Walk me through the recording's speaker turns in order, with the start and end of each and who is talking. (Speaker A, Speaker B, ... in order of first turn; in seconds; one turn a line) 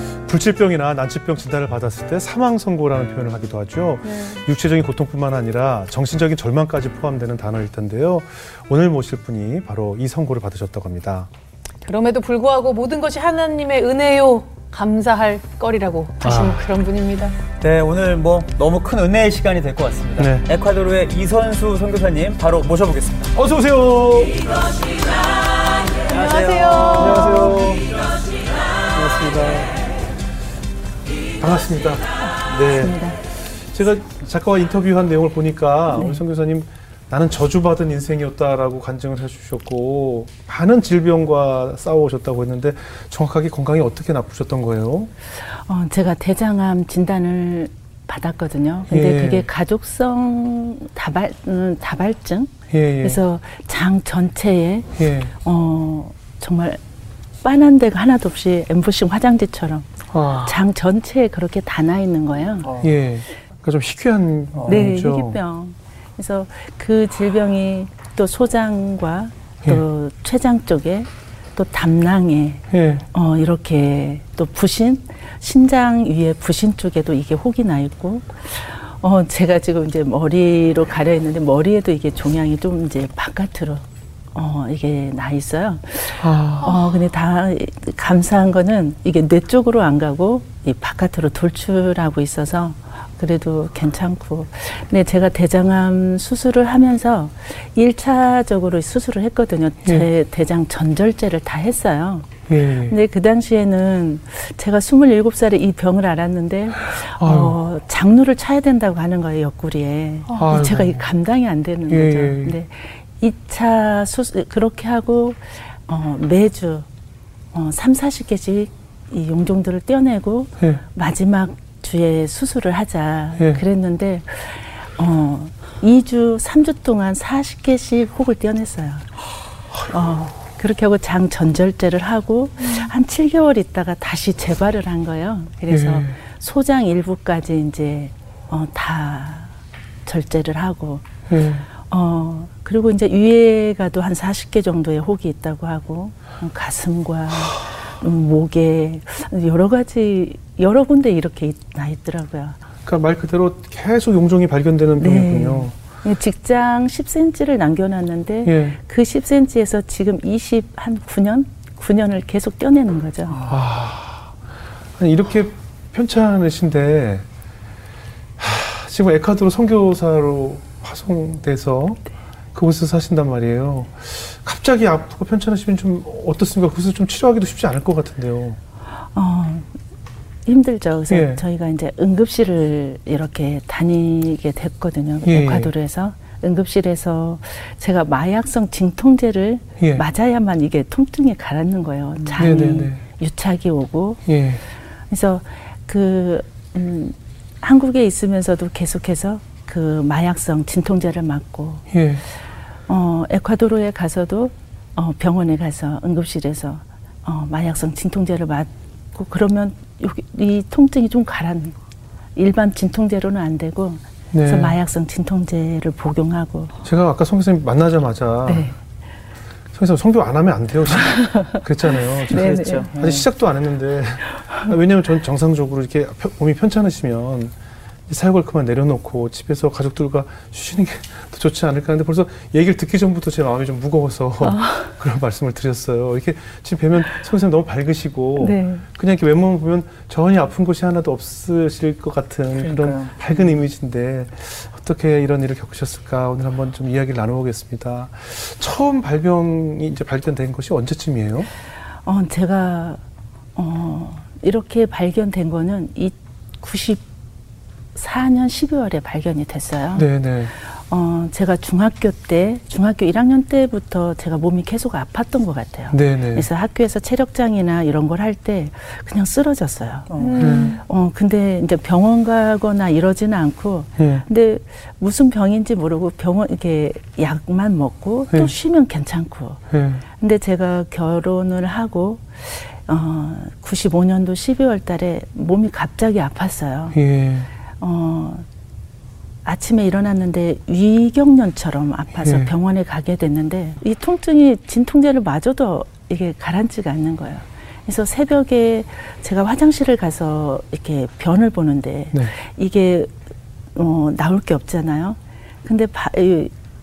Speaker A: 0.3-11.3
Speaker B: 4.0-4.4
Speaker B: 11.8-17.4
Speaker A: 16.2-16.6
Speaker C: 17.6-23.3
Speaker A: 20.2-20.5
Speaker A: 23.3-24.4
Speaker B: 26.0-27.5
Speaker C: 26.1-27.8
Speaker A: 26.9-27.9
Speaker A: 28.9-29.8
Speaker A: 31.4-45.1
Speaker D: 32.7-33.2
Speaker D: 35.9-36.2
Speaker D: 45.6-56.8
Speaker A: 48.9-49.5
Speaker A: 52.7-53.2
Speaker A: 55.0-55.3
Speaker D: 57.4-59.9
Speaker A: 60.1-60.6
Speaker D: 60.4-62.7
Speaker A: 62.8-65.4
Speaker C: 64.5-64.8
Speaker D: 64.7-116.9
Speaker A: 72.7-73.0
Speaker A: 86.2-86.8
Speaker A: 102.5-103.0
Speaker A: 107.0-107.6
Speaker B: 110.3-110.5
Speaker A: 110.3-111.1
Speaker A: 111.9-112.6
Speaker D: 117.5-129.1
Speaker A: 123.4-123.6
Speaker D: 129.9-139.5
Speaker A: 135.7-136.2
Speaker D: 140.1-141.1
Speaker A: 141.3-141.7
Speaker D: 141.8-152.6
Speaker A: 152.8-155.7
Speaker D: 155.0-163.4
Speaker A: 158.4-158.8
Speaker A: 163.4-164.4
Speaker A: 165.0-167.2
Speaker A: 168.4-172.0
Speaker A: 172.5-178.6
Speaker D: 179.1-179.7
Speaker D: 180.4-194.2
Speaker A: 181.1-181.4
Speaker A: 185.2-185.7
Speaker A: 192.3-193.0
Speaker A: 194.2-194.6
Speaker D: 195.1-201.8
Speaker A: 201.9-202.2
Speaker D: 202.9-211.8
Speaker D: 212.3-216.7
Speaker A: 214.3-214.8
Speaker A: 216.8-218.7
Speaker D: 218.4-218.8
Speaker A: 219.7-227.5
Speaker D: 221.2-221.6
Speaker C: 222.3-223.2
Speaker D: 222.3-222.9
Speaker A: 228.1-251.5
Speaker D: 234.4-234.9
Speaker D: 238.4-238.8
Speaker C: 242.6-243.5
Speaker D: 252.0-253.0
Speaker D: 253.6-257.0
Speaker D: 257.9-260.1
Speaker A: 259.9-260.5
Speaker D: 260.8-279.6
Speaker A: 265.9-266.5
Speaker C: 270.1-270.5
Speaker B: 270.2-270.8
Speaker A: 270.4-270.8
Speaker A: 274.0-274.2
Speaker A: 279.7-280.0
Speaker D: 280.2-287.0
Speaker A: 286.9-287.5
Speaker D: 287.8-288.4
Speaker D: 289.4-303.1
Speaker A: 292.2-292.5
Speaker D: 303.7-306.5